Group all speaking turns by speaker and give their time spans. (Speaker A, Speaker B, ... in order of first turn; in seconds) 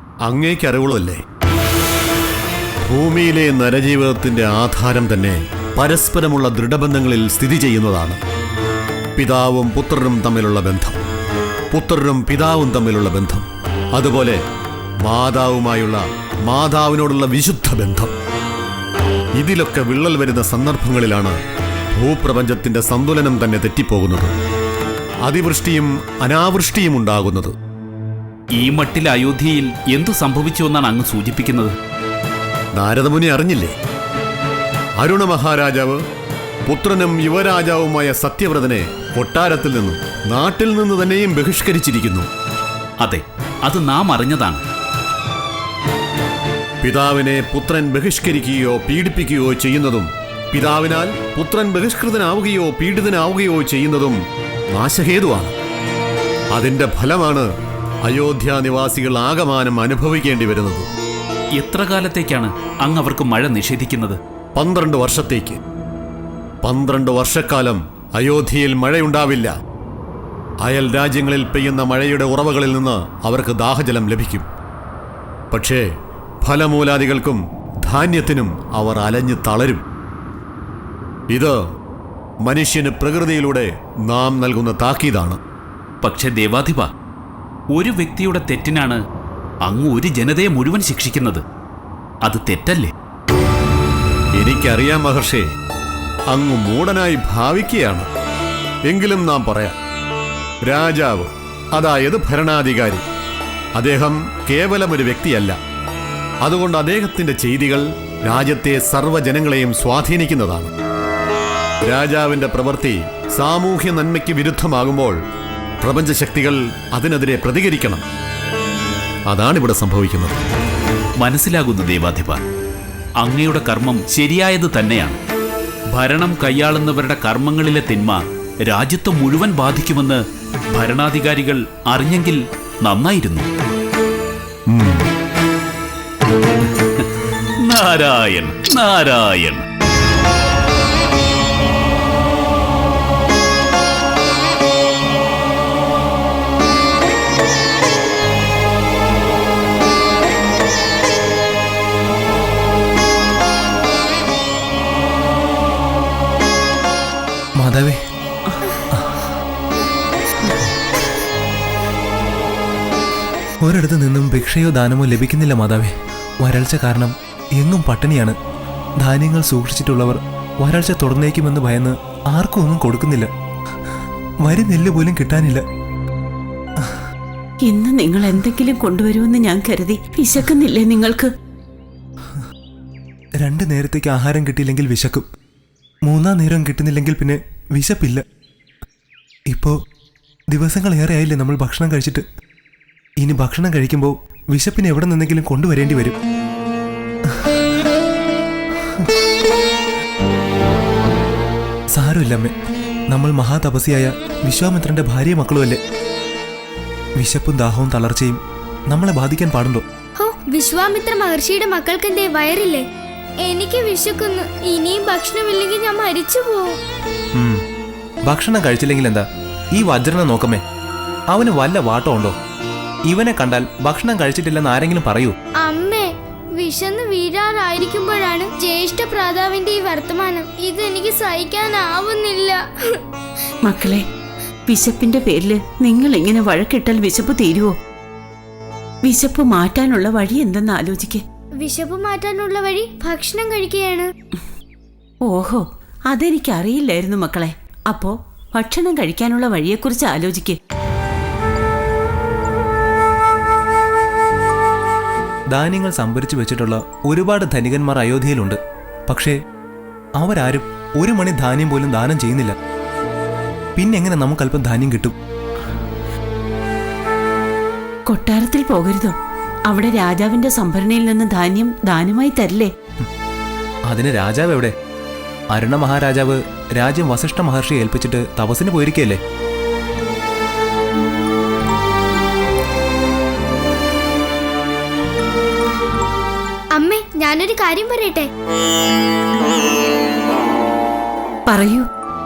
Speaker A: 0.2-1.2, 2.9-8.2, 9.2-11.0, 11.7-14.4, 15.0-18.1, 19.4-21.4, 22.0-24.3, 25.3-27.5, 32.8-33.7, 35.0-36.0, 36.7-42.3, 46.8-54.2, 54.7-55.5, 56.5-57.5, 58.1-60.9, 64.6-65.6, 66.6-69.5, 70.6-74.5, 75.5-75.8, 76.4-79.8, 82.5-85.4, 94.4-95.4, 96.3-98.1, 98.9-99.8, 100.7-103.0, 103.8-105.6, 106.4-110.7, 111.9-115.2, 115.8-118.0, 119.3-120.4, 134.7-135.1
Speaker B: 28.6-31.7, 43.0-44.6, 61.6-64.2, 86.0-86.9, 87.7-89.0, 89.7-91.4, 92.2-92.9, 121.2-122.4, 123.2-125.2, 126.0-130.2, 130.7-133.5, 137.7-139.6
Speaker C: 157.6-158.0, 163.6-168.3, 169.0-173.3, 174.4-175.6, 183.4-185.3, 186.1-188.2, 190.5-192.2, 193.2-196.2, 201.9-202.5, 203.1-205.8, 207.2-209.8, 217.3-217.6, 218.3-220.6, 221.3-222.4, 223.1-225.3, 255.5-259.3, 260.2-262.6, 263.8-265.1, 273.9-274.8, 275.5-279.2
Speaker D: 177.6-181.3, 233.7-234.1, 234.7-237.7, 239.0-241.2, 245.3-250.6, 268.1-269.1, 269.7-272.7, 291.5-291.9
Speaker E: 210.2-212.9, 213.4-216.8, 225.6-233.0, 241.6-244.1, 286.7-288.3